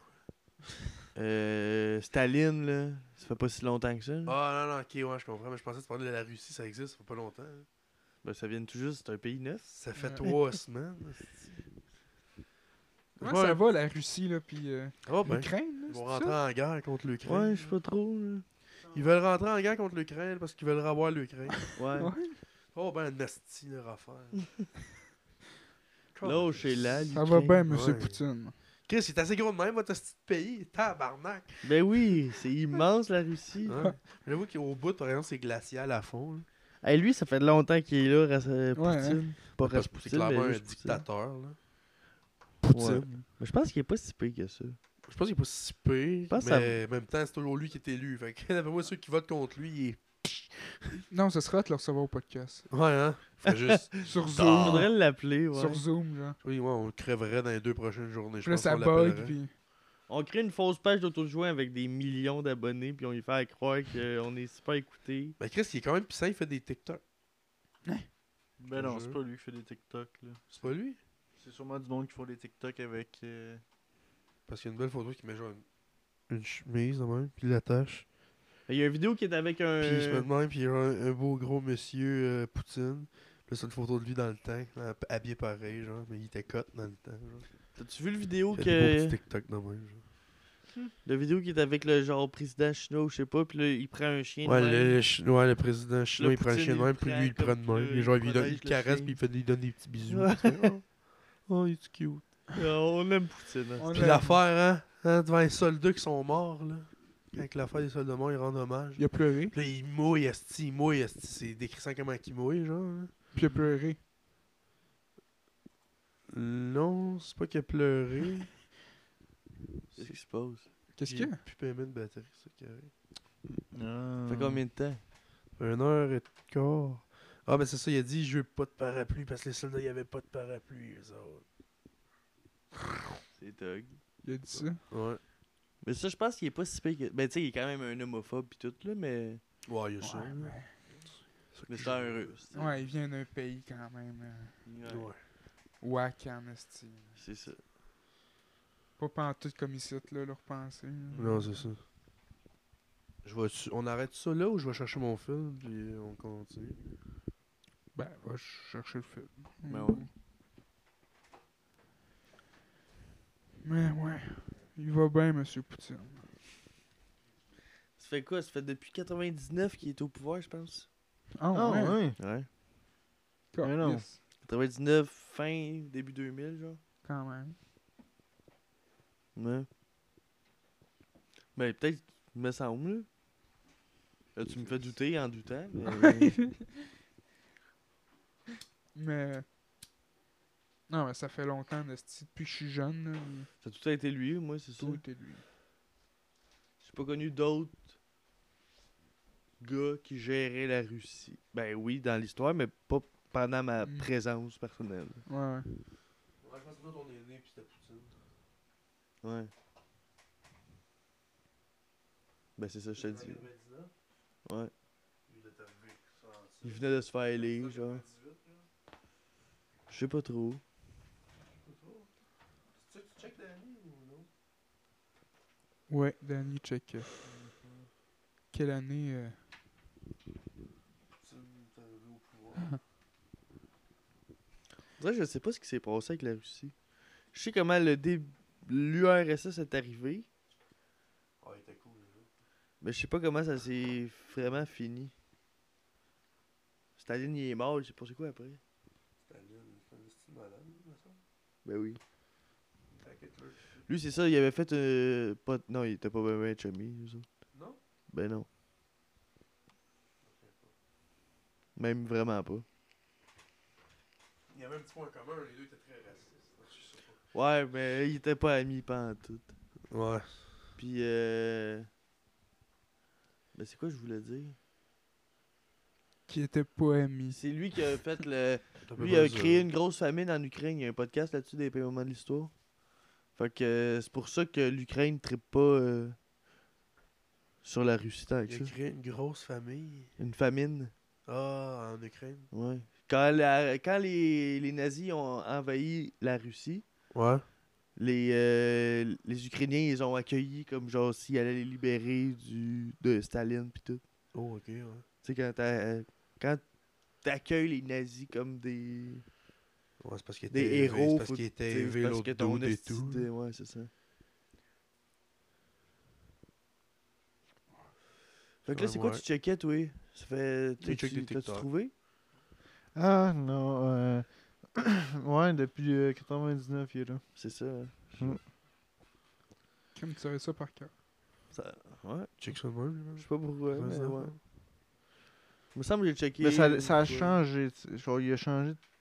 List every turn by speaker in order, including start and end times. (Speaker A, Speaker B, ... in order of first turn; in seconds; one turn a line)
Speaker A: 1.1-4.3
Speaker B: 4.2-7.7
Speaker A: 8.2-9.7
Speaker B: 9.7-11.6
Speaker C: 9.9-10.3
Speaker B: 13.2-13.6
Speaker C: 13.2-16.4
Speaker B: 15.0-17.7
Speaker A: 17.2-18.4
Speaker B: 18.9-21.7
Speaker A: 21.8-22.1
Speaker C: 22.0-22.4
Speaker B: 22.7-24.4
Speaker B: 26.1-27.1
Speaker A: 26.2-27.7
Speaker C: 27.1-28.5
Speaker B: 27.7-28.2
Speaker B: 28.9-31.7
Speaker A: 31.6-33.8
Speaker B: 33.6-36.5
Speaker A: 36.8-41.0
Speaker C: 38.8-39.2
Speaker B: 39.6-41.6
Speaker B: 42.6-43.1
Speaker A: 42.7-44.8
Speaker B: 45.1-51.0
Speaker A: 46.3-46.8
Speaker C: 51.1-52.7
Speaker B: 52.7-54.9
Speaker A: 53.4-55.8
Speaker C: 54.0-54.9
Speaker C: 55.5-56.4
Speaker B: 56.4-59.4
Speaker C: 58.4-59.5
Speaker A: 60.1-65.3
Speaker B: 65.4-67.0
Speaker D: 68.6-70.7
Speaker B: 68.7-69.2
Speaker B: 70.5-71.0
Speaker D: 71.3-73.6
Speaker B: 74.5-75.6
Speaker B: 76.3-78.0
Speaker A: 78.7-80.3
Speaker B: 79.8-87.5
Speaker A: 87.7-89.2
Speaker B: 88.5-90.0
Speaker A: 91.0-95.0
Speaker B: 94.4-102.4
Speaker A: 96.2-99.2
Speaker A: 100.1-100.8
Speaker A: 102.5-103.9
Speaker C: 103.8-104.4
Speaker B: 103.9-113.1
Speaker C: 109.0-109.5
Speaker C: 113.3-114.0
Speaker B: 116.3-118.6
Speaker B: 119.9-120.2
Speaker A: 120.0-120.7
Speaker C: 120.9-121.4
Speaker B: 121.0-122.9
Speaker D: 123.5-124.6
Speaker A: 124.3-125.0
Speaker B: 125.5-131.4
Speaker A: 133.3-134.0
Speaker C: 134.2-134.8
Speaker B: 134.5-135.2
Speaker A: 135.8-139.4
Speaker B: 139.7-140.8
Speaker C: 140.0-140.7
Speaker B: 141.5-142.3
Speaker A: 141.7-142.8
Speaker C: 142.5-144.6
Speaker A: 144.6-145.1
Speaker B: 144.8-145.2
Speaker C: 145.8-147.2
Speaker A: 147.2-147.6
Speaker C: 149.0-151.5
Speaker D: 151.1-151.4
Speaker B: 151.1-151.8
Speaker B: 153.2-156.8
Speaker C: 157.9-160.1
Speaker A: 159.7-160.1
Speaker C: 163.6-166.3
Speaker A: 168.0-170.9
Speaker C: 171.4-172.0
Speaker D: 171.5-172.2
Speaker A: 172.2-172.5
Speaker C: 173.5-174.2
Speaker D: 173.6-174.0
Speaker A: 174.4-176.8
Speaker C: 177.0-177.6
Speaker A: 179.3-179.7
Speaker A: 181.5-183.1
Speaker A: 184.3-186.4
Speaker B: 184.6-184.9
Speaker C: 186.3-186.7
Speaker C: 188.9-189.4
Speaker C: 190.9-193.5
Speaker A: 193.6-195.0
Speaker C: 194.8-195.4
Speaker A: 196.8-197.9
Speaker A: 199.6-205.2
Speaker C: 203.8-204.1
Speaker C: 205.3-205.7
Speaker B: 206.4-208.1
Speaker A: 209.2-209.5
Speaker A: 212.6-213.4
Speaker B: 212.9-213.9
Speaker A: 214.4-214.7
Speaker B: 215.3-218.6
Speaker A: 216.6-218.0
Speaker A: 219.9-220.6
Speaker B: 221.5-222.1
Speaker B: 222.8-224.3
Speaker C: 225.9-227.1
Speaker B: 227.3-227.8
Speaker C: 228.5-229.4
Speaker B: 231.2-232.7
Speaker A: 235.0-236.7
Speaker A: 237.3-240.3
Speaker B: 241.4-242.3
Speaker A: 242.8-245.1
Speaker A: 247.0-248.6
Speaker B: 249.2-251.2
Speaker A: 251.6-252.0
Speaker B: 253.0-253.8
Speaker A: 253.9-257.3
Speaker A: 258.1-258.4
Speaker B: 260.2-260.7
Speaker A: 261.8-262.6
Speaker B: 264.5-267.2
Speaker A: 267.3-269.5
Speaker B: 269.9-270.4
Speaker A: 270.8-271.9
Speaker A: 273.5-274.6
Speaker C: 276.3-277.4
Speaker A: 277.3-282.5
Speaker B: 278.9-279.6
Speaker A: 283.4-286.2
Speaker A: 287.6-288.7
Speaker B: 288.5-290.1
Speaker A: 290.2-290.9
Speaker B: 291.3-292.5
Speaker A: 292.5-296.8
Speaker B: 297.1-297.4
Speaker A: 297.9-304.0
Speaker B: 304.3-305.0
Speaker A: 305.2-306.6
Speaker A: 307.2-309.2
Speaker B: 310.0-313.3
Speaker A: 310.5-313.9
Speaker A: 318.6-321.9
Speaker B: 318.7-319.2
Speaker B: 320.8-321.7
Speaker D: 322.9-327.2
Speaker A: 327.4-328.4
Speaker C: 329.9-330.9
Speaker A: 331.5-332.3
Speaker B: 332.4-334.4
Speaker A: 333.1-334.3
Speaker A: 335.7-337.4
Speaker D: 336.4-338.8